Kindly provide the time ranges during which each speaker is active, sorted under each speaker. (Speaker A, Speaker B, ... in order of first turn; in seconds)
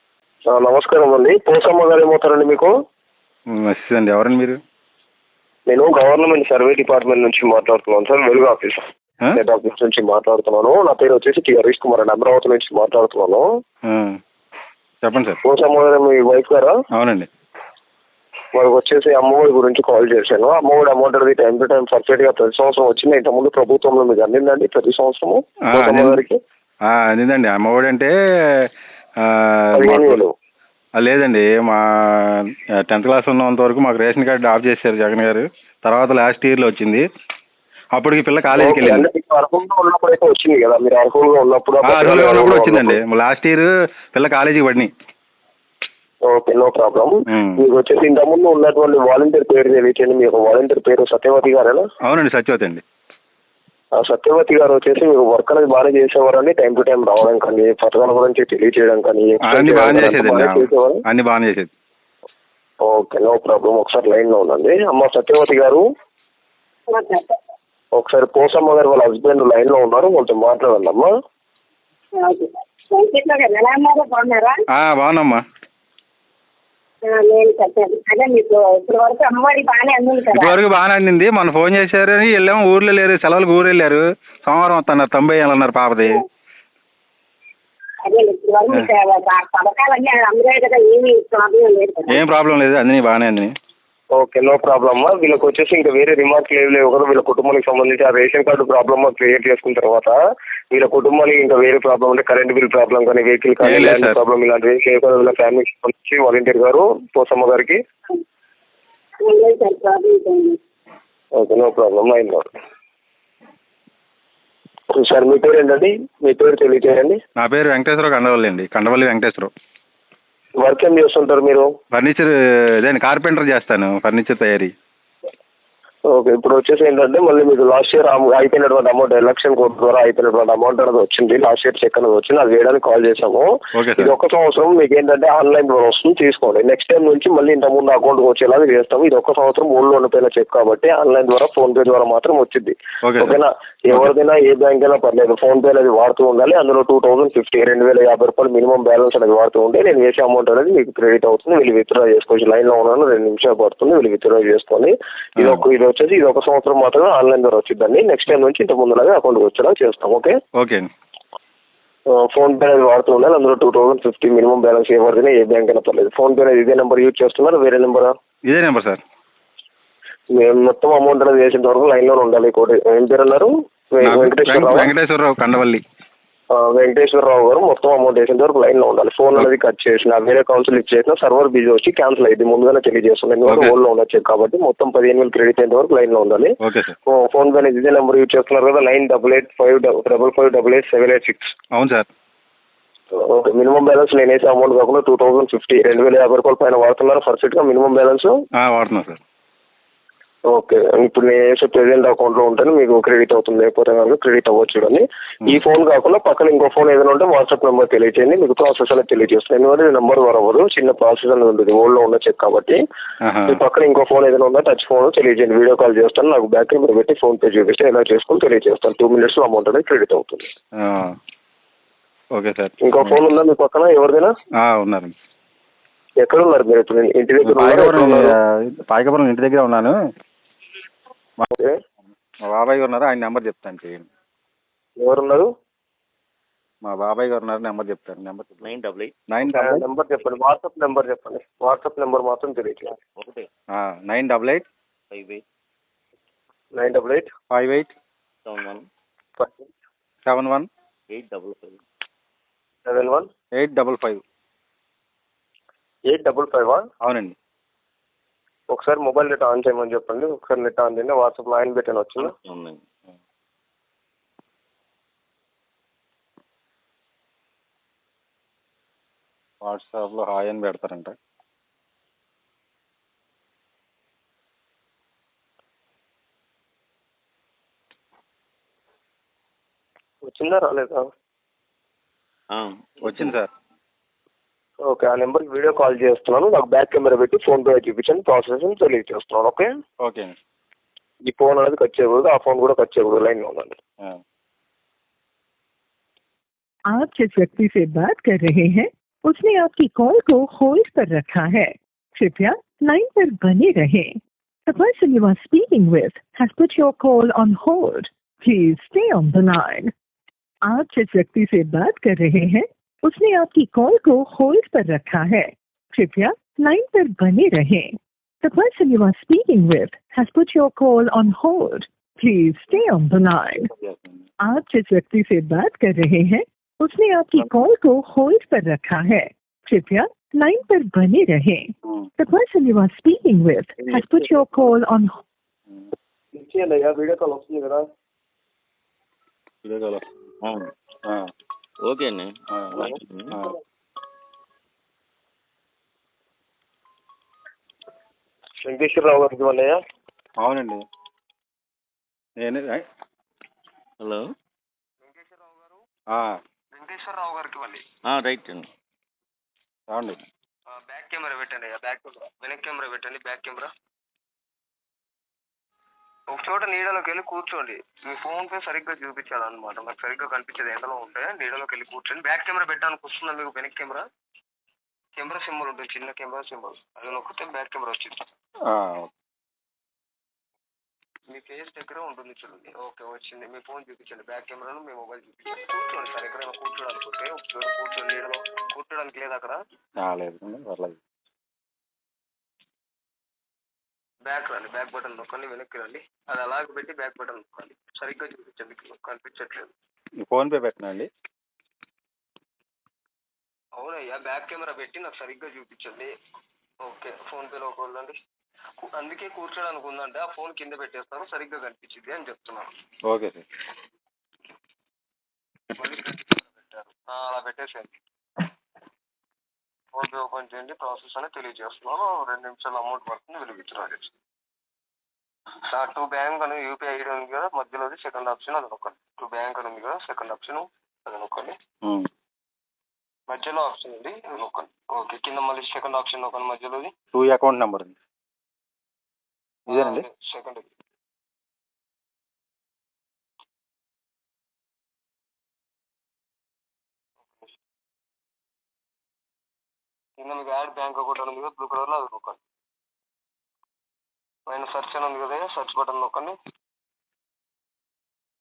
Speaker A: 0.5-2.7, 5.7-13.4, 15.4-16.8, 18.5-26.4, 29.8-30.3, 38.5-43.0, 46.3-51.9, 54.0-61.0, 62.8-65.8, 68.0-71.1, 94.2-100.1, 100.7-107.8, 111.3-112.5, 114.9-117.2, 120.6-121.7, 126.1-160.3, 162.1-168.1, 170.3-174.9, 176.5-186.5, 187.1-191.5, 193.1-198.3, 200.5-212.8, 213.5-220.5, 222.8-224.3, 226.2-228.3, 235.0-235.5, 239.4-242.9, 246.7-247.3, 249.4-249.7, 252.8-253.3, 256.1-256.8, 258.7-262.3, 280.2-281.1, 284.8-289.7, 291.2-293.8, 336.3-337.8, 348.6-349.8, 355.0-355.8, 356.7-357.8, 360.7-363.7, 366.3-374.0, 375.2-378.2, 381.3-389.6, 394.2-399.7, 403.8-406.1, 406.8-408.1, 408.9-412.7, 415.8-417.9, 419.9-424.1, 425.7-431.5, 433.3-436.9, 439.7-440.7, 450.2-452.4, 454.5-456.4
Speaker B: 3.6-4.6, 13.9-14.2, 15.0-15.4, 16.9-17.3, 25.7-26.2, 26.9-28.1, 29.2-30.2, 31.0-37.0, 38.0-39.1, 41.8-44.9, 47.3-47.6, 52.0-52.8, 59.4-61.7, 74.8-75.4, 80.3-86.2, 92.1-93.5, 103.6-104.2, 117.4-119.5, 121.9-124.7, 133.8-134.1, 143.0-143.4, 155.4-155.7, 160.6-160.9, 168.5-169.0, 174.0-175.8, 183.5-183.7, 186.6-186.9, 191.7-192.1, 198.6-199.2, 213.2-213.6, 220.8-221.2, 222.3-223.2, 224.6-225.1, 227.4-228.2, 228.8-229.9, 232.5-234.1, 236.8-238.7, 239.3-239.8, 243.8-244.7, 247.5-247.9, 250.3-250.7, 253.6-254.2, 257.0-257.4, 269.6-271.1, 283.0-283.5, 290.0-290.3, 323.8-324.2, 339.6-340.0, 342.5-343.5, 350.4-350.8, 352.4-352.8, 359.9-360.2, 378.7-379.1, 390.0-391.0, 400.2-401.1, 413.1-413.4, 437.1-437.9, 439.7-440.1
Speaker C: 66.9-67.3, 72.2-74.6, 77.0-80.6, 88.0-92.2, 109.2-110.6
Speaker D: 238.6-239.1, 243.2-243.5, 245.1-245.4, 248.4-248.8, 251.1-251.8, 262.2-262.8, 282.5-283.4, 340.4-340.7, 341.8-343.4, 358.1-358.7
Speaker E: 296.9-304.1, 304.7-309.9, 310.7-323.7, 324.4-331.6, 332.2-335.1